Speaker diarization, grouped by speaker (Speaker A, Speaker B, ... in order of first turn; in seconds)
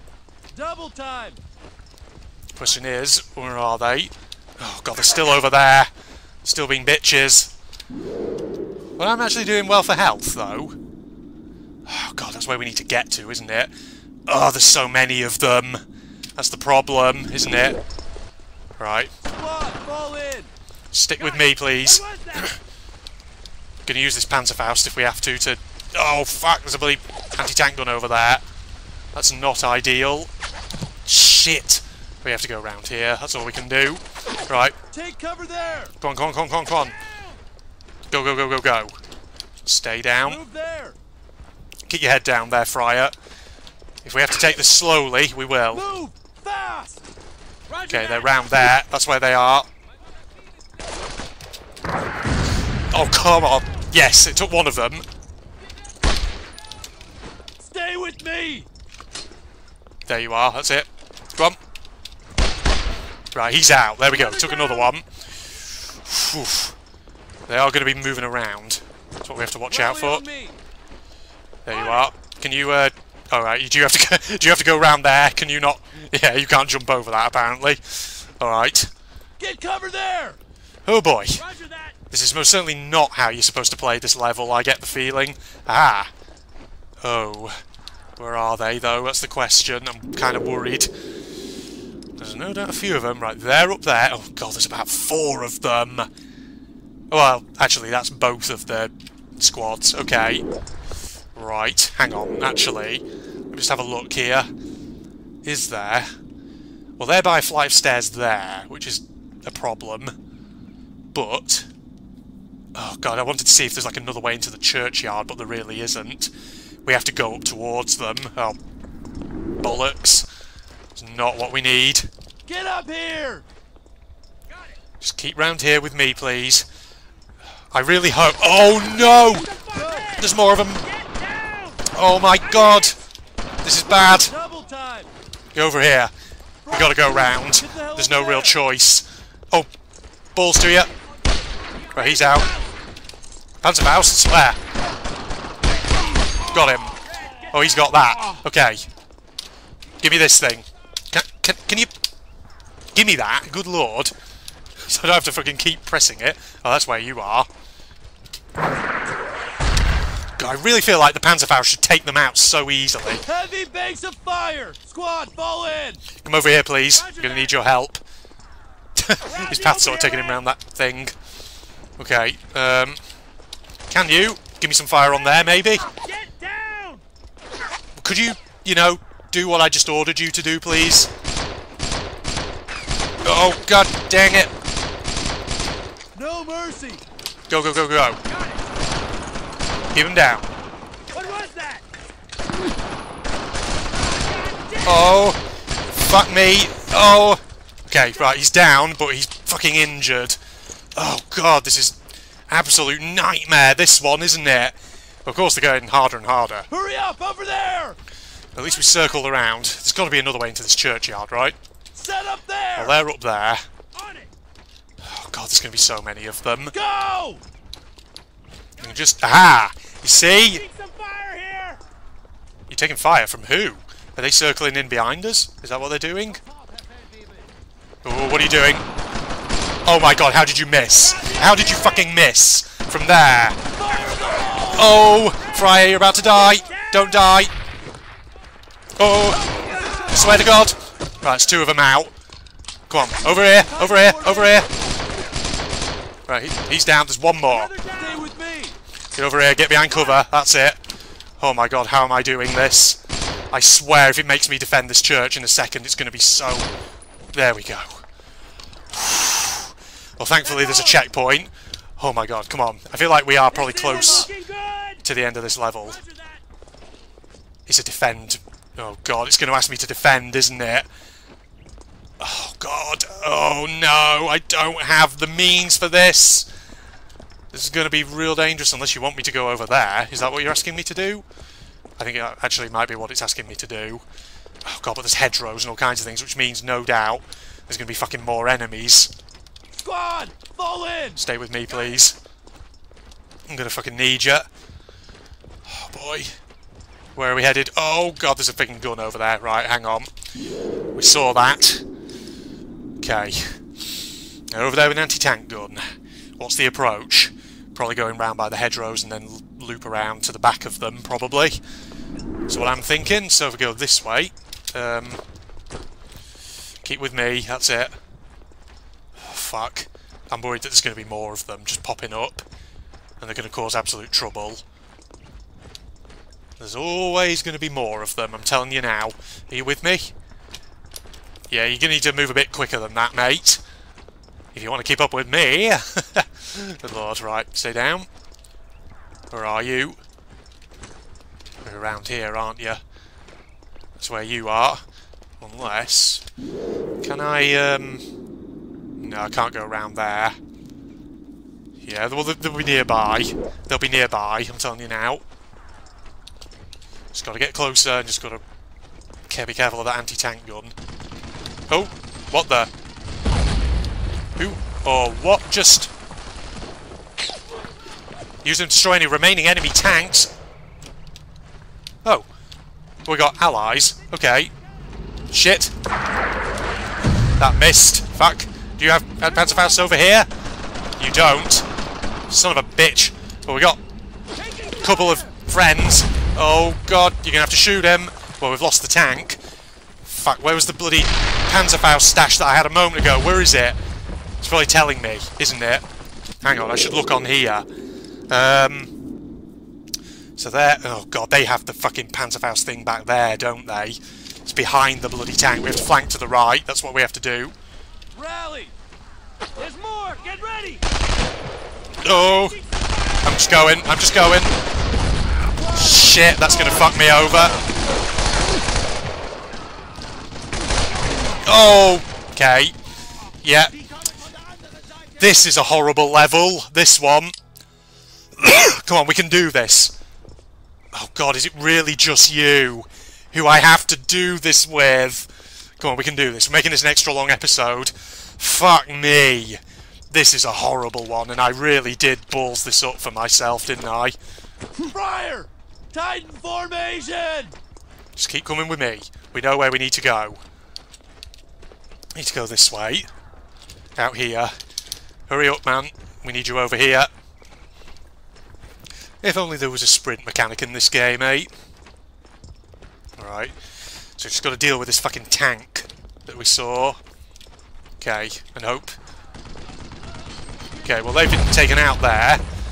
Speaker A: 0.5-1.4, 19.3-20.5, 34.9-35.9, 40.2-41.0, 45.7-47.0, 57.6-58.7, 64.1-64.9, 69.7-70.6, 79.4-80.4, 122.5-123.5, 129.6-130.2, 133.9-135.1, 136.7-138.6, 163.3-166.0, 186.2-187.0, 206.7-208.0, 211.9-212.9, 216.7-217.4, 226.6-227.3, 233.7-235.0, 239.5-240.5, 243.4-244.8, 247.9-248.8, 263.9-264.3, 289.7-291.2, 408.1-408.7, 409.6-410.1, 415.8-416.7, 444.8-447.6
Speaker B: 2.6-5.9, 6.4-7.5, 9.0-10.8, 11.9-13.7, 14.3-15.8, 16.4-17.8, 18.8-19.1, 20.9-22.6, 23.9-28.4, 29.1-30.3, 31.1-34.8, 36.0-37.0, 38.1-39.0, 39.7-40.4, 41.9-43.1, 44.0-45.8, 47.9-49.7, 52.9-55.0, 60.1-61.6, 63.3-65.1, 66.0-66.8, 67.5-70.2, 71.7-78.9, 80.9-81.4, 82.1-86.1, 87.0-87.6, 88.2-90.9, 92.2-96.1, 97.1-100.5, 101.3-104.5, 105.5-106.1, 107.0-110.1, 111.1-111.7, 112.8-116.3, 116.9-118.6, 119.6-120.3, 121.0-122.1, 125.0-126.7, 127.7-129.5, 130.2-130.8, 131.9-133.0, 133.6-134.3, 135.6-136.1, 136.7-139.7, 140.3-140.9, 141.9-142.5, 143.6-144.6, 146.5-147.0, 147.5-148.9, 150.0-151.9, 152.9-154.1, 154.8-157.5, 160.4-163.2, 166.2-168.0, 169.0-171.2, 172.0-173.0, 173.9-175.9, 178.0-181.1, 183.2-184.5, 187.5-188.2, 189.9-190.5, 194.8-195.4, 195.9-200.4, 201.0-202.0, 202.5-206.7, 208.6-211.6, 212.8-213.7, 215.0-216.8, 218.8-220.6, 222.7-226.4, 228.0-228.8, 229.9-233.6, 234.7-237.5, 239.0-239.5, 240.1-242.1, 242.9-244.7, 246.3-247.7, 249.2-250.8, 251.4-253.0, 253.5-256.7, 257.3-258.0, 258.9-264.3, 265.0-266.0, 267.7-270.9, 272.2-276.5, 277.5-281.2, 282.0-284.0, 284.6-289.1, 291.2-292.2, 293.5-294.5, 295.7-296.3, 297.2-300.1, 301.0-301.8, 303.0-303.6, 304.5-311.6, 312.5-315.2, 316.8-317.9, 319.2-322.4, 323.2-324.6, 326.6-330.1, 331.5-333.6, 334.5-338.1, 339.3-340.0, 341.6-342.8, 344.0-344.8, 345.4-346.2, 347.0-348.0, 349.0-350.4, 351.9-355.2, 357.1-358.4, 359.3-360.7, 361.7-362.7, 364.4-365.9, 368.4-370.3, 373.1-374.5, 375.3-375.7, 377.4-380.3, 381.0-381.7, 382.3-383.8, 384.8-389.4, 390.1-393.8, 394.4-395.8, 396.4-397.7, 398.3-398.9, 400.4-407.6, 412.0-412.6, 413.2-414.6, 415.7-417.6, 421.4-422.8, 423.4-423.7, 425.2-427.3, 428.4-429.9, 430.9-439.6, 440.1-444.2, 448.2-450.4, 452.1-453.1, 454.0-454.6, 455.3-457.1, 459.2-461.5, 463.2-463.6, 464.2-467.0, 468.0-469.0, 470.9-472.4
Speaker C: 21.2-22.5, 47.7-48.5, 81.4-82.0, 128.9-131.9, 132.4-132.9, 142.0-142.6, 147.1-147.6, 166.9-167.5, 169.8-170.3, 175.9-177.0, 188.3-188.6, 191.1-191.8, 194.1-195.2, 208.7-209.2, 213.9-214.3, 218.8-219.1, 220.1-221.8, 231.1-232.0, 234.1-234.8, 236.2-237.2, 247.5-248.3, 260.4-261.1, 263.5-265.0, 265.9-266.4, 409.6-410.8, 412.1-413.5